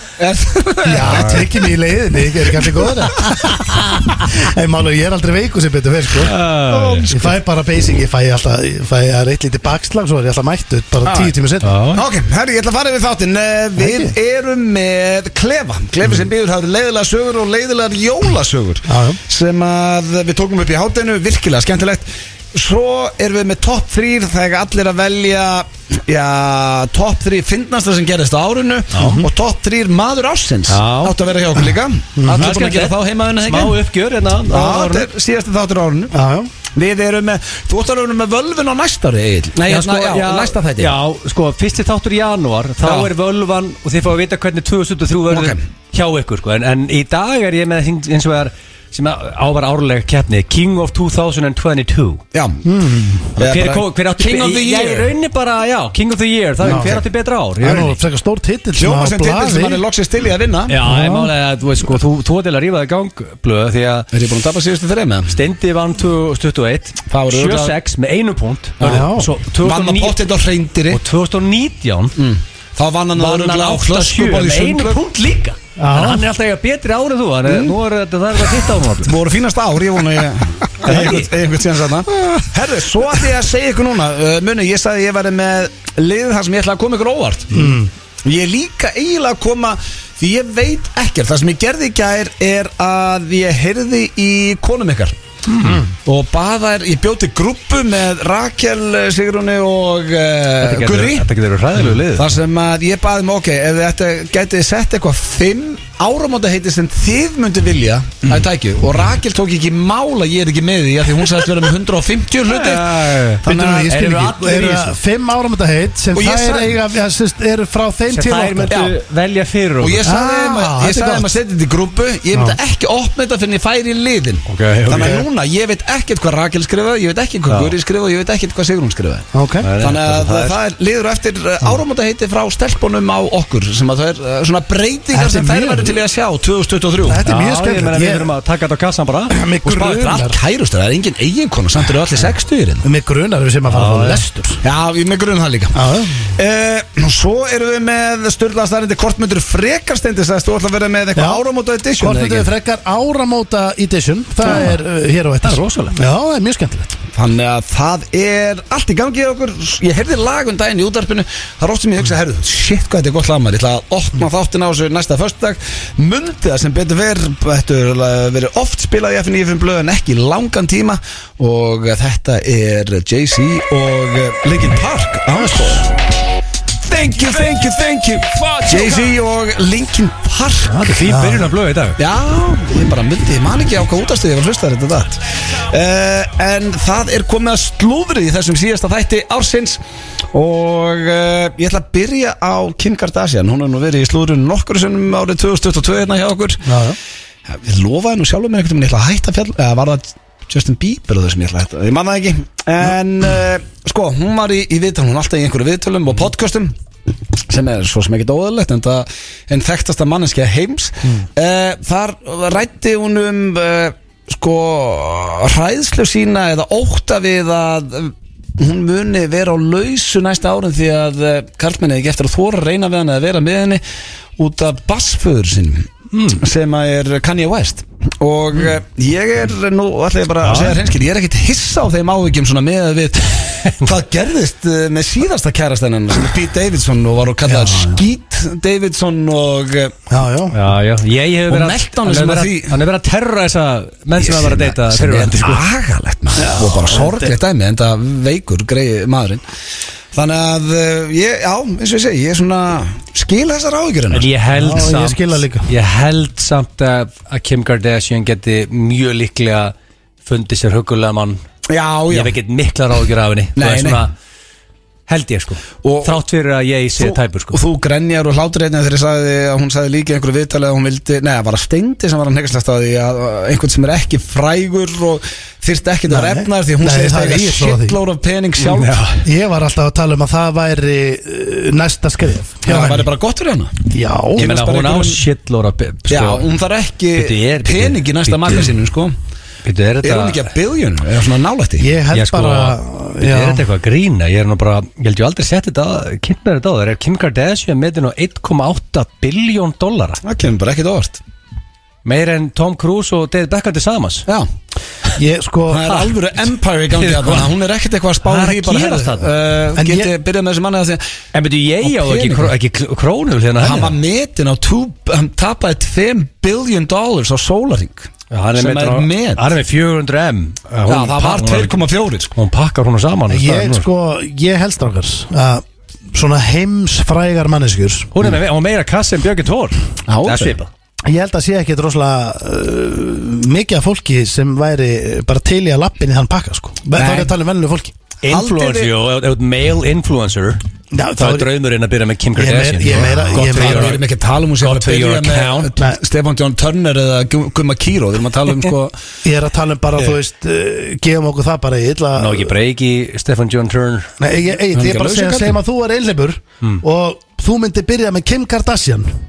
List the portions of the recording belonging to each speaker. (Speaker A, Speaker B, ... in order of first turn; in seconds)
Speaker A: 0.2-1.6, 2.6-2.9, 6.7-7.4, 11.0-11.3, 11.9-33.8, 34.5-36.2, 36.7-40.9, 42.8-43.1, 45.3-45.6, 52.3-52.7, 53.4-55.1, 56.6-57.0, 58.8-60.8, 64.1-65.4, 67.1-67.8, 68.8-69.1, 69.6-71.0, 72.2-75.0, 77.5-77.8, 79.0-87.7, 88.2-95.2, 96.0-101.3, 102.2-113.8, 116.2-116.8, 118.7-119.0, 119.8-129.3, 129.8-137.2, 139.6-142.9, 144.6-152.5, 157.1-176.1, 176.8-180.9, 182.0-189.8, 190.3-196.7, 197.5-206.7, 207.5-223.8, 224.4-240.0, 241.5-242.8, 244.2-249.4, 250.1-254.3, 261.7-262.4, 263.6-264.0, 265.8-266.2, 267.0-279.0, 282.7-283.8, 284.4-285.2, 286.1-289.1, 290.0-291.9, 300.2-301.2, 305.7-311.0, 311.8-312.5, 313.6-319.4, 320.9-322.3, 330.1-330.6, 336.9-337.3, 338.3-338.9, 343.1-348.9, 354.7-355.6
Speaker B: 0.8-6.3, 7.1-11.8, 13.8-14.1, 18.9-19.2, 29.0-29.3, 32.2-32.5, 36.1-36.5, 52.6-53.3, 56.6-57.0, 57.6-59.8, 60.8-61.3, 68.8-69.3, 75.8-76.3, 87.5-87.9, 113.4-118.8, 120.0-121.4, 122.3-122.6, 124.9-125.2, 129.3-129.7, 135.1-136.0, 137.1-138.3, 139.3-140.4, 142.8-144.6, 145.7-146.3, 151.2-151.4, 152.0-156.9, 181.1-181.5, 196.7-197.0, 237.5-238.0, 240.1-240.6, 246.4-247.3, 254.5-255.7, 276.1-278.0, 279.2-283.1, 283.9-284.5, 291.8-293.7, 305.2-306.0, 309.8-310.1, 323.3-328.1, 331.1-337.9, 340.9-341.5, 342.4-344.0, 349.2-352.5, 354.2-359.1
Speaker C: 1.1-1.4, 3.4-3.8, 6.2-7.1, 11.6-12.0, 28.9-29.2, 30.7-31.1, 32.4-35.1, 39.7-52.2, 53.4-58.0, 60.7-64.1, 65.3-70.2, 70.9-72.2, 73.2-79.1, 80.8-81.3, 95.5-95.8, 100.6-102.3, 112.5-115.0, 118.1-120.1, 124.5-125.2, 127.5-127.7, 129.6-130.6, 137.2-139.4, 143.7-144.2, 154.4-154.7, 155.4-156.0, 180.7-182.0, 226.1-226.4, 230.4-230.8, 240.5-245.6, 254.1-259.7, 260.2-261.4, 262.1-264.1, 265.1-267.6, 278.6-279.2, 284.4-286.4, 287.1-288.7, 289.6-290.5, 292.1-300.2, 302.1-304.3, 307.0-307.5, 308.2-309.3, 311.3-313.9, 318.3-321.8, 322.3-323.9, 328.1-330.7, 338.2-340.6, 341.2-344.0, 344.6-345.7, 352.2-354.1